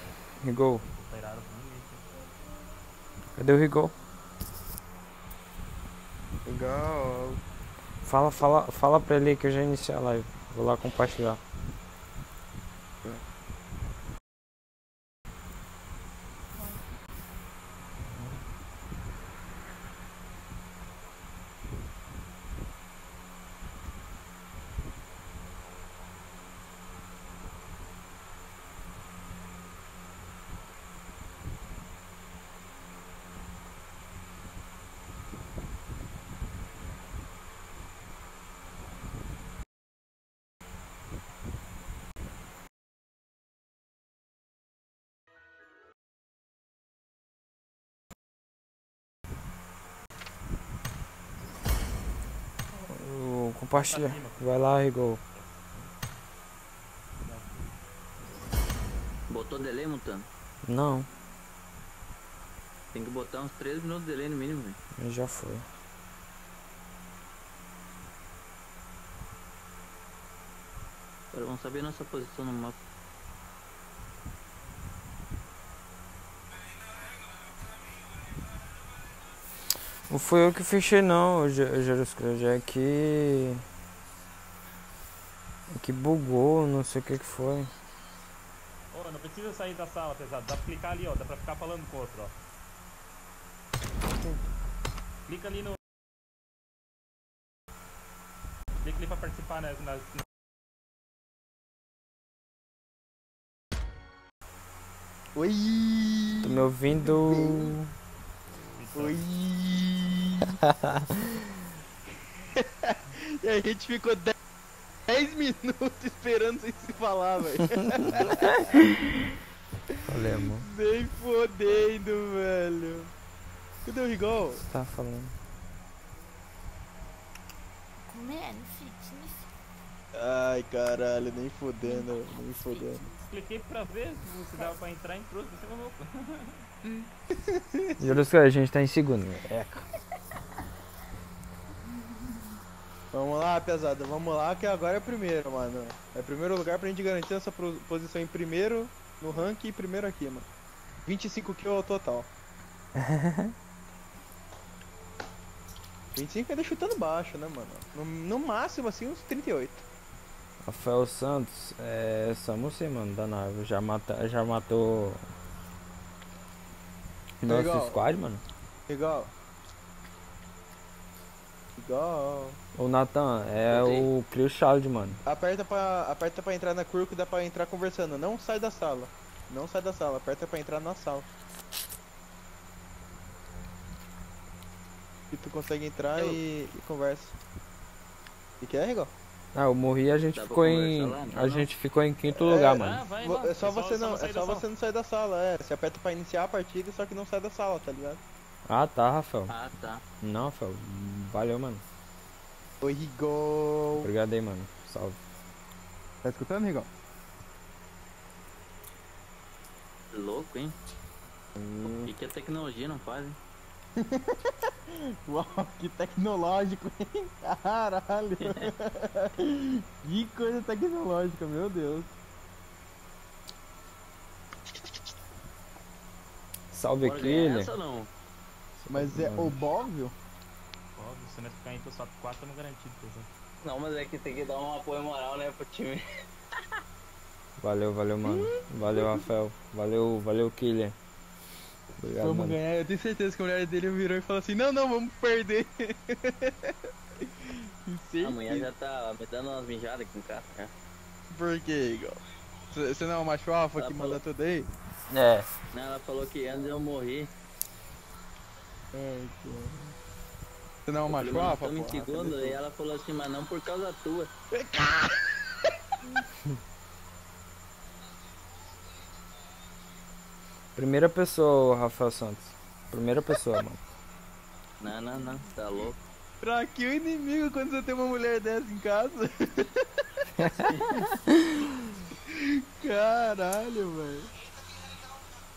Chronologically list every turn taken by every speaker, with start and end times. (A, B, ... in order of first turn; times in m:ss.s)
0:00.4-0:00.8 A
0:00.8-0:02.0 B
0:03.4-0:03.9 A
0:06.4-0:07.4 C
0:08.0-0:11.4 A
0:52.8-0:55.2 A
0:53.8-0:54.5 B
0:55.3-0:55.9 B
0:57.2-0:57.7 B
0:59.3-1:00.3 D
1:00.6-1:01.1 A
1:02.9-1:04.8 D
1:05.0-1:05.6 A
1:11.3-1:12.8 D
1:20.1-1:23.6 A
1:25.7-1:27.7 A
1:28.9-1:32.3 B
1:35.3-1:35.8 B
1:38.8-1:40.2 B
1:45.3-1:47.7 C
1:46.4-1:47.9 A
1:48.5-1:49.3 B
1:48.9-1:50.6 C
1:52.6-1:54.3 C
1:55.0-1:58.6 C
2:00.0-2:00.7 A
2:00.6-2:03.1 C
2:03.8-2:04.6 C
2:04.6-2:05.4 A
2:08.0-2:09.5 E
2:10.1-2:13.0 C
2:11.8-2:13.0 E
2:13.1-2:16.7 B
2:16.8-2:17.1 E
2:17.4-2:18.3 C
2:18.0-2:19.8 A
2:23.1-2:30.4 C
2:31.0-2:32.3 C
2:33.0-2:33.5 A
2:36.1-2:39.8 C
2:40.6-2:45.2 A
2:47.4-2:48.0 C
2:47.4-2:48.4 A
2:48.9-2:49.3 C
2:51.8-2:52.6 C
2:52.7-2:55.2 A
2:53.7-2:54.1 D
2:55.2-3:01.3 C
3:05.3-3:07.3 C
3:08.6-3:09.1 C
3:09.5-3:13.1 A
3:10.3-3:11.7 D
3:12.3-3:18.2 C
3:12.7-3:14.7 B
3:18.7-3:19.5 A
3:19.5-3:20.0 D
3:20.2-3:21.8 A
3:22.8-3:24.1 C
3:24.0-3:25.2 A
3:26.2-3:26.9 C
3:30.1-3:30.8 D
3:31.6-3:32.1 C
3:32.0-3:33.4 D
3:34.0-3:42.1 C
3:46.7-3:47.7 A
3:47.0-3:48.1 D
3:48.8-3:49.6 A
3:48.9-3:50.1 C
3:51.0-3:53.3 B
3:53.6-3:56.0 D
3:57.6-4:01.0 A
3:58.2-3:59.3 C
4:02.0-4:02.6 A
4:02.2-4:08.7 C
4:08.2-4:10.7 D
4:11.3-4:14.7 C
4:13.8-4:14.2 D
4:15.1-4:15.5 A
4:15.7-4:17.3 D
4:18.9-4:19.9 C
4:20.8-4:22.6 C
4:21.1-4:24.3 D
4:24.5-4:25.4 C
4:30.7-4:33.8 A
4:34.8-4:36.0 D
4:36.4-4:39.8 C
4:40.4-4:40.8 A
4:42.3-4:44.4 C